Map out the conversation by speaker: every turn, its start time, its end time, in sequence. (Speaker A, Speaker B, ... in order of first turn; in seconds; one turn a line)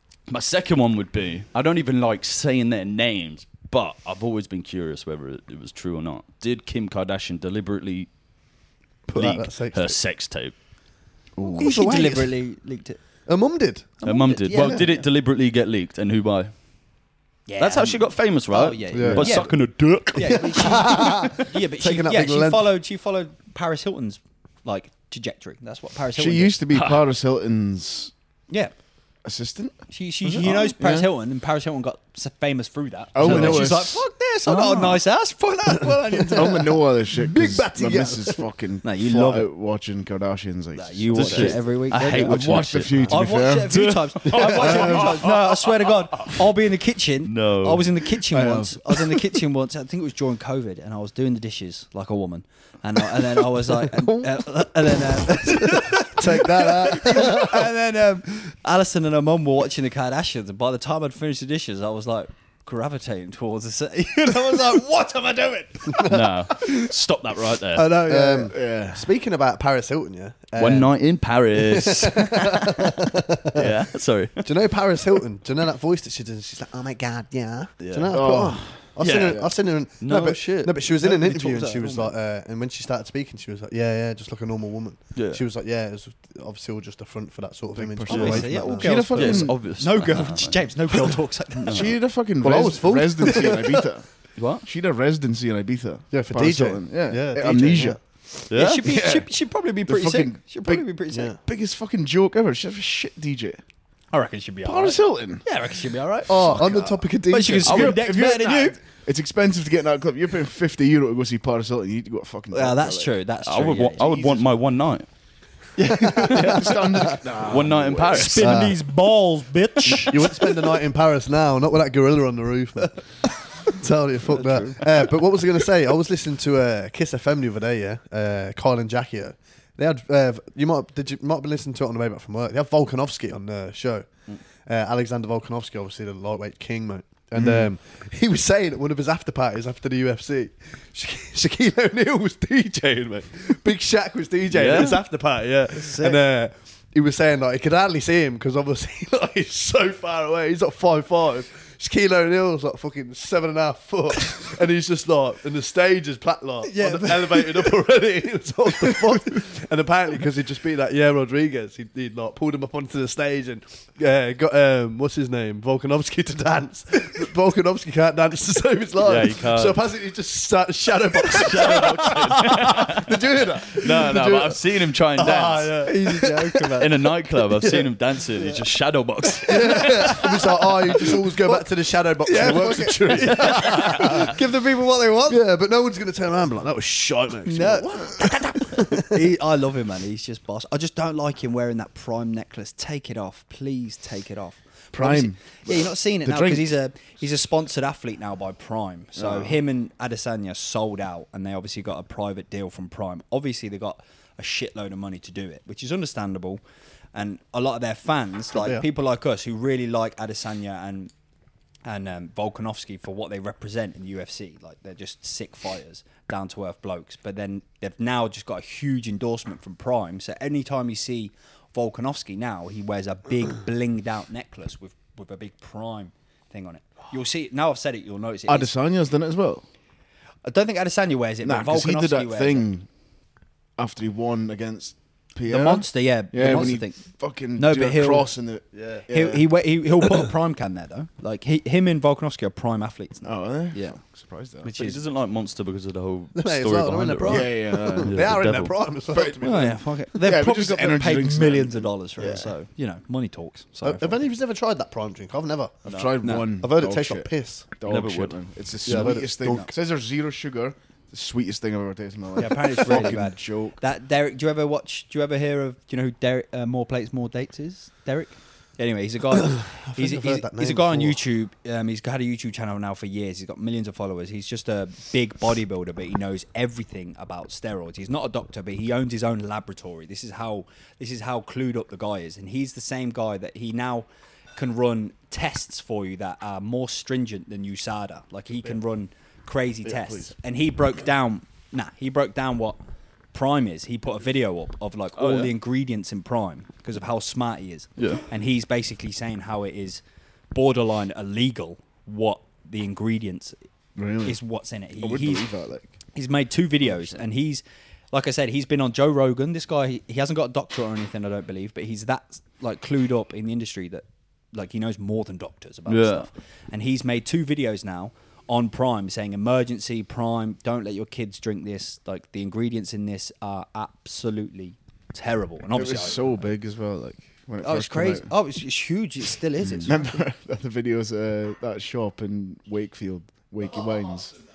Speaker A: 0.3-8.1
Speaker B: 9.1-10.0
Speaker A: 9.1-10.5
Speaker C: 11.3-11.7
Speaker B: 11.5-12.3
Speaker D: 11.6-13.0
Speaker B: 13.3-13.9
Speaker D: 14.0-14.9
Speaker A: 14.0-16.5
Speaker C: 14.6-14.9
Speaker D: 17.5-26.6
Speaker A: 17.6-21.0
Speaker B: 18.9-19.4
Speaker B: 20.3-22.7
Speaker C: 26.1-28.1
Speaker A: 26.7-27.0
Speaker C: 29.2-29.8
Speaker D: 29.9-36.7
Speaker C: 30.7-31.1
Speaker C: 33.1-34.0
Speaker A: 33.2-33.7
Speaker A: 34.5-35.0
Speaker B: 35.9-38.4
Speaker C: 36.3-43.7
Speaker D: 38.8-39.5
Speaker D: 40.7-66.1
Speaker A: 41.1-46.4
Speaker B: 44.3-45.1
Speaker C: 44.6-45.0
Speaker A: 47.2-48.0
Speaker C: 48.3-49.0
Speaker B: 55.6-57.7
Speaker A: 66.0-68.0
Speaker D: 67.8-68.5
Speaker B: 67.9-70.9
Speaker C: 68.4-69.0
Speaker A: 70.6-74.5
Speaker B: 71.5-73.8
Speaker B: 74.4-89.0
Speaker A: 77.8-79.5
Speaker C: 78.1-79.5
Speaker A: 80.0-80.8
Speaker D: 81.0-82.1
Speaker A: 85.1-85.4
Speaker C: 87.8-89.5
Speaker A: 88.1-88.5
Speaker D: 88.1-91.9
Speaker A: 89.1-90.5
Speaker A: 91.6-92.0
Speaker C: 91.7-94.1
Speaker B: 92.4-93.8
Speaker A: 94.4-94.7
Speaker C: 94.6-98.0
Speaker B: 96.1-98.0
Speaker A: 98.5-99.0
Speaker D: 98.5-101.3
Speaker C: 98.8-99.3
Speaker C: 99.8-100.8
Speaker B: 101.1-101.4
Speaker C: 101.4-103.6
Speaker D: 104.1-108.8
Speaker C: 104.6-105.5
Speaker B: 106.3-108.0
Speaker C: 106.4-106.9
Speaker C: 107.6-113.1
Speaker D: 112.5-114.4
Speaker A: 113.4-115.1
Speaker B: 115.8-117.2
Speaker D: 116.2-116.6
Speaker C: 116.2-118.5
Speaker A: 117.4-118.8
Speaker D: 118.1-120.5
Speaker B: 118.4-118.8
Speaker B: 119.9-134.1
Speaker B: 134.7-176.8
Speaker C: 137.4-137.6
Speaker A: 144.5-145.0
Speaker D: 145.7-146.2
Speaker D: 156.6-157.7
Speaker A: 169.0-169.8
Speaker A: 171.2-175.8
Speaker D: 175.8-176.9
Speaker A: 176.8-180.3
Speaker B: 177.4-177.9
Speaker B: 179.4-184.3
Speaker D: 179.6-180.4
Speaker D: 181.0-181.6
Speaker D: 182.2-185.4
Speaker B: 185.3-189.2
Speaker D: 187.4-206.6
Speaker C: 194.9-196.7
Speaker C: 199.2-199.6
Speaker D: 207.1-211.1
Speaker B: 208.5-208.8
Speaker D: 211.8-228.7
Speaker C: 228.5-229.6
Speaker D: 230.4-232.7
Speaker C: 231.4-232.9
Speaker C: 233.8-239.5
Speaker D: 235.5-238.3
Speaker B: 238.7-239.0
Speaker D: 239.1-244.0
Speaker C: 243.2-244.7
Speaker D: 244.6-245.0
Speaker A: 244.7-248.7
Speaker B: 246.3-249.8
Speaker C: 247.2-248.1
Speaker C: 249.1-252.4
Speaker D: 249.4-254.2
Speaker B: 253.8-255.9
Speaker C: 255.9-263.8
Speaker D: 255.9-256.5
Speaker B: 256.6-257.6
Speaker A: 257.9-258.4
Speaker B: 258.8-259.7
Speaker D: 259.4-259.7
Speaker D: 262.4-292.8
Speaker B: 269.5-271.2
Speaker C: 289.8-290.3
Speaker D: 293.3-303.6
Speaker A: 295.1-295.5
Speaker A: 298.0-298.2
Speaker C: 303.9-304.4
Speaker D: 304.2-305.5
Speaker C: 305.0-305.9
Speaker D: 306.1-326.5
Speaker A: 315.9-316.3
Speaker C: 325.7-328.3
Speaker D: 327.6-330.2
Speaker C: 329.7-334.4